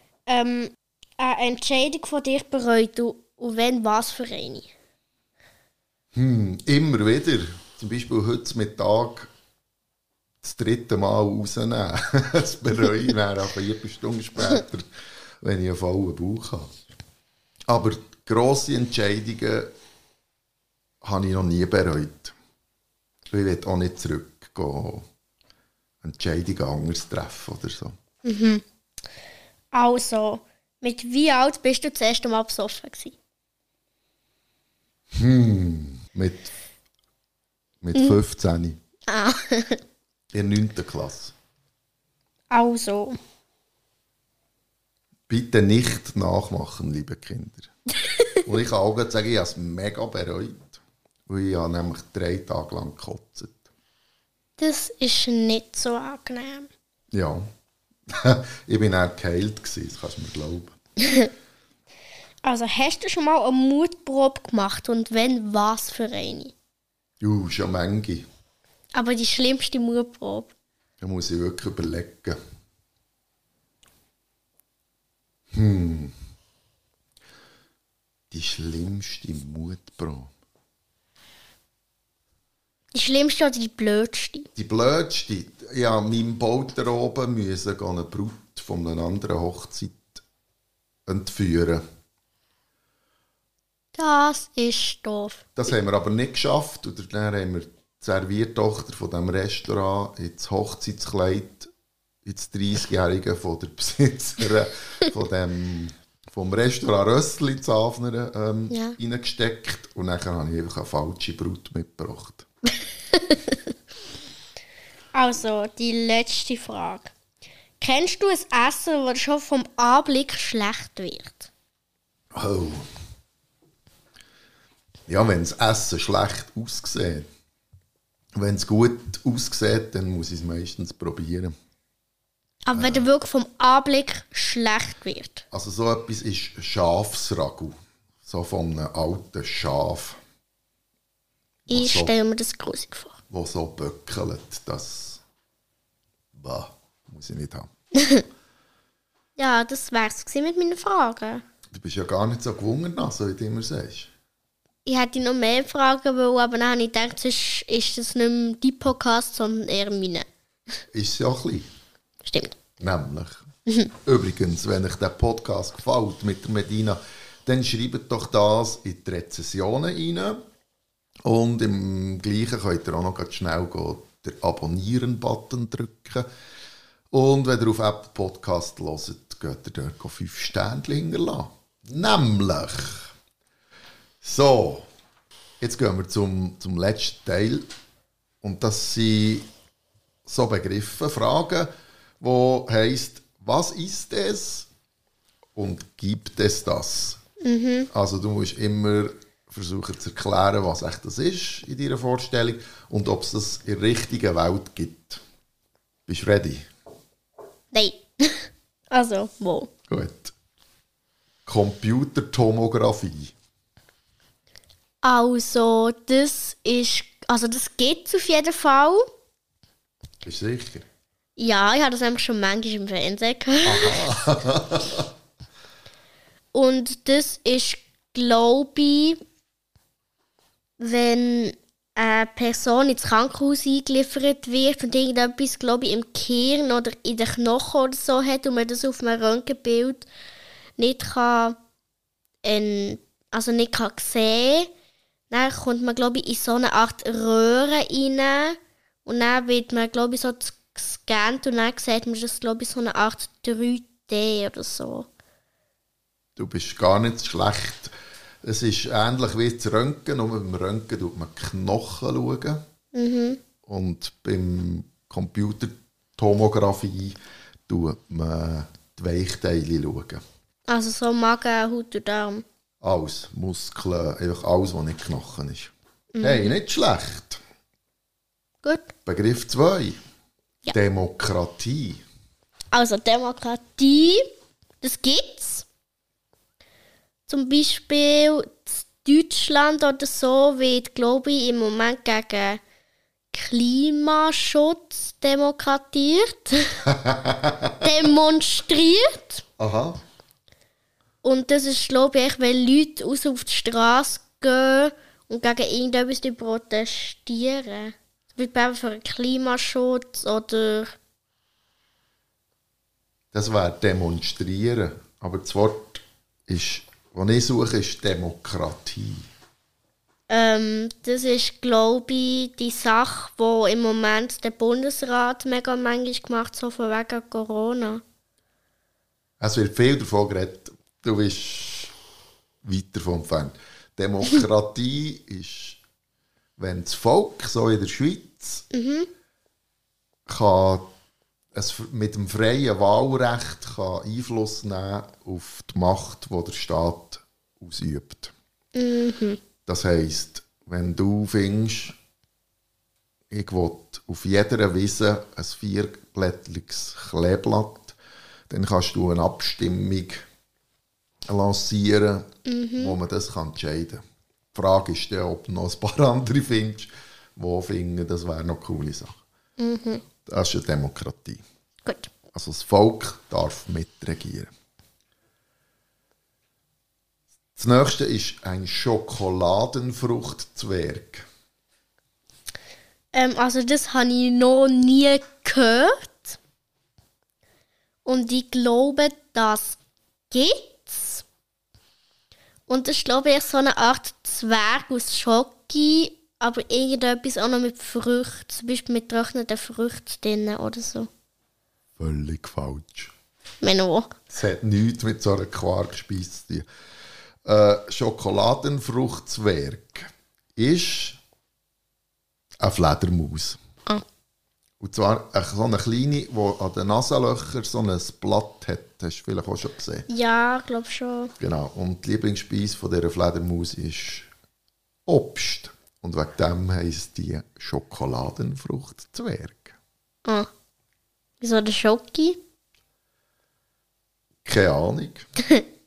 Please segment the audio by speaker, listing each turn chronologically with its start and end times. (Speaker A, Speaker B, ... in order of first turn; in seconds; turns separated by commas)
Speaker A: 0.3-4.7, Speaker B: 6.1-9.3, Speaker B: 10.4-14.9, Speaker B: 15.4-16.7, Speaker B: 17.7-19.7, Speaker B: 21.0-22.3, Speaker B: 23.3-25.1, Speaker B: 26.0-27.9, Speaker A: 28.2-28.6, Speaker A: 29.7-33.1, Speaker B: 35.1-36.5, Speaker B: 37.8-38.8, Speaker A: 39.1-39.8, Speaker B: 40.3-41.3, Speaker A: 42.5-43.2, Speaker B: 45.3-47.7, Speaker B: 48.4-53.6, Speaker A: 54.6-56.7, Speaker B: 57.1-57.5, Speaker B: 58.1-60.8, Speaker A: 61.0-61.3, Speaker A: 62.4-66.5, Speaker B: 67.2-68.3, Speaker A: 68.9-70.5, Speaker B: 71.0-72.4, Speaker B: 75.5-76.1, Speaker B: 78.3-80.3, Speaker A: 82.9-84.5, Speaker B: 84.5-90.2, Speaker B: 91.0-91.8, Speaker A: 94.0-95.4, Speaker B: 95.5-101.7, Speaker B: 102.2-112.5, Speaker A: 108.7-109.0, Speaker A: 115.1-117.1, Speaker A: 117.8-121.5, Speaker B: 122.3-122.8, Speaker B: 125.1-127.3, Speaker B: 128.3-131.5, Speaker A: 132.7-135.4, Speaker B: 132.7-133.0, Speaker B: 135.5-140.2, Speaker B: 141.7-142.1, Speaker A: 141.7-143.2, Speaker B: 143.3-145.2, Speaker B: 146.3-147.7, Speaker A: 149.4-151.4, Speaker B: 151.7-154.1, Speaker A: 154.8-160.2, Speaker B: 160.9-161.7, Speaker A: 162.2-162.6, Speaker B: 162.8-163.5, Speaker B: 164.0-170.4, Speaker B: 171.2-176.3, Speaker B: 177.1-183.1, Speaker B: 184.2-184.8, Speaker B: 185.6-187.7, Speaker B: 188.4-189.5, Speaker B: 190.2-194.7, Speaker B: 195.6-197.2, Speaker A: 197.4-197.9, Speaker B: 197.9-205.2, Speaker B: 206.1-206.7, Speaker A: 207.7-209.7, Speaker B: 209.9-210.3, Speaker B: 211.4-213.3, Speaker A: 215.0-219.1, Speaker B: 220.2-220.8, Speaker A: 221.4-224.1, Speaker B: 223.6-225.1, Speaker A: 226.5-229.2, Speaker A: 230.8-240.1, Speaker A: 240.8-241.6, Speaker A: 242.4-244.7, Speaker A: 245.3-255.1, Speaker B: 256.4-257.9, Speaker B: 258.4-262.6, Speaker A: 262.9-263.4, Speaker B: 263.6-267.1, Speaker B: 267.7-270.2, Speaker A: 270.7-272.4, Speaker B: 272.8-277.4, Speaker A: 276.1-276.5, Speaker A: 278.6-278.9, Speaker B: 279.0-280.0, Speaker B: 280.7-282.0, Speaker A: 282.7-284.2, Speaker A: 284.8-285.6, Speaker A: 287.3-292.6, Speaker A: 293.3-296.9, Speaker B: 296.9-297.7, Speaker A: 297.8-299.4, Speaker B: 299.6-300.0, Speaker A: 301.2-310.9, Speaker B: 313.3-319.2, Speaker A: 320.3-328.0, Speaker B: 329.4-331.9, Speaker B: 332.6-335.8, Speaker B: 336.6-338.6, Speaker A: 338.7-339.1, Speaker B: 340.3-340.9, Speaker B: 341.5-348.3, Speaker A: 348.7-349.4, Speaker B: 349.6-351.9, Speaker B: 353.3-357.9, Speaker B: 358.5-360.2, Speaker B: 361.3-364.0, Speaker A: 362.4-362.9, Speaker B: 364.5-369.2, Speaker A: 369.6-370.0, Speaker B: 370.2-371.4, Speaker A: 371.8-372.1, Speaker B: 372.3-374.5, Speaker B: 377.6-381.2, Speaker A: 383.1-386.4, Speaker A: 388.0-389.8, Speaker A: 390.3-391.2, Speaker A: 392.7-401.1, Speaker B: 402.0-403.1, Speaker A: 403.6-404.1, Speaker B: 404.3-406.6, Speaker B: 407.4-411.2, Speaker B: 412.6-413.6, Speaker B: 414.8-420.1, Speaker A: 420.1-421.3, Speaker B: 421.4-424.3, Speaker B: 425.1-429.7, Speaker A: 431.4-432.4, Speaker B: 434.4-435.3